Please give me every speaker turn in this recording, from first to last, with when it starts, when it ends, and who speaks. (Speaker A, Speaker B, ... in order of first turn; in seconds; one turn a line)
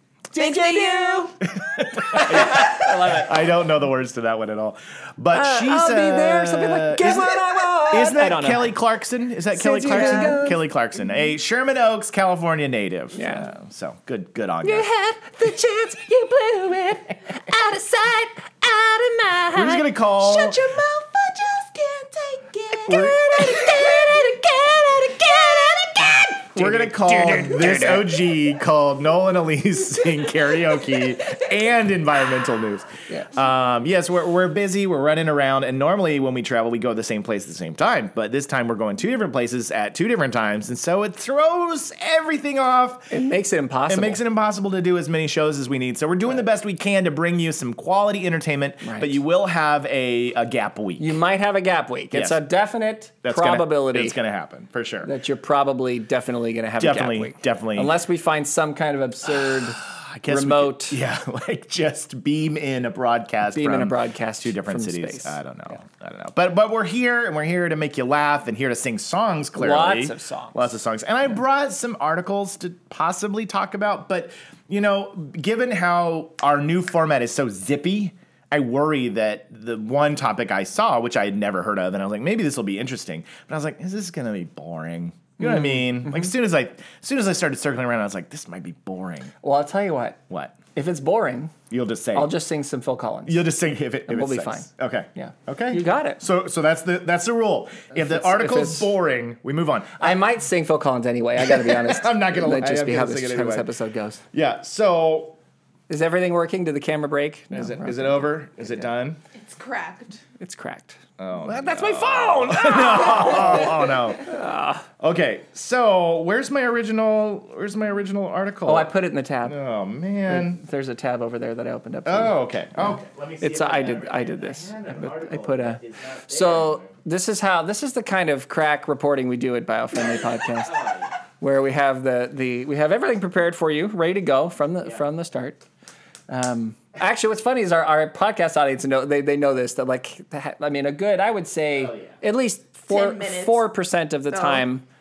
Speaker A: 0.3-1.4
Speaker B: 0.4-1.2
Speaker C: 1.4-14.9
Speaker B: 2.1-3.3
Speaker B: 5.3-8.7
Speaker B: 9.5-10.6
Speaker B: 13.1-13.5
Speaker B: 14.6-19.9
Speaker C: 19.5-20.6
Speaker A: 20.2-25.6
Speaker B: 22.8-28.1
Speaker C: 22.9-23.2
Speaker C: 26.5-43.1
Speaker B: 43.1-44.2
Speaker C: 43.9-51.2
Speaker B: 48.8-49.2
Speaker B: 51.0-54.2
Speaker C: 52.1-52.4
Speaker C: 53.2-55.1
Speaker B: 55.0-61.0
Speaker C: 56.8-57.9
Speaker C: 59.4-89.3
Speaker B: 63.5-65.4
Speaker B: 69.6-70.7
Speaker B: 85.4-86.3
Speaker B: 89.4-90.2
Speaker C: 90.3-90.6
Speaker B: 90.7-91.5
Speaker C: 91.7-92.3
Speaker B: 92.1-93.5
Speaker C: 93.3-100.2
Speaker B: 94.1-96.2
Speaker B: 97.9-98.9
Speaker B: 100.0-104.2
Speaker C: 101.4-103.7
Speaker C: 104.3-105.4
Speaker B: 105.9-108.2
Speaker C: 107.5-109.2
Speaker A: 109.3-110.2
Speaker B: 110.4-114.9
Speaker C: 111.2-114.3
Speaker C: 115.0-118.9
Speaker B: 118.7-119.6
Speaker C: 119.5-120.6
Speaker B: 120.3-135.6
Speaker C: 122.1-126.9
Speaker B: 136.3-144.8
Speaker A: 142.9-143.7
Speaker A: 144.3-144.7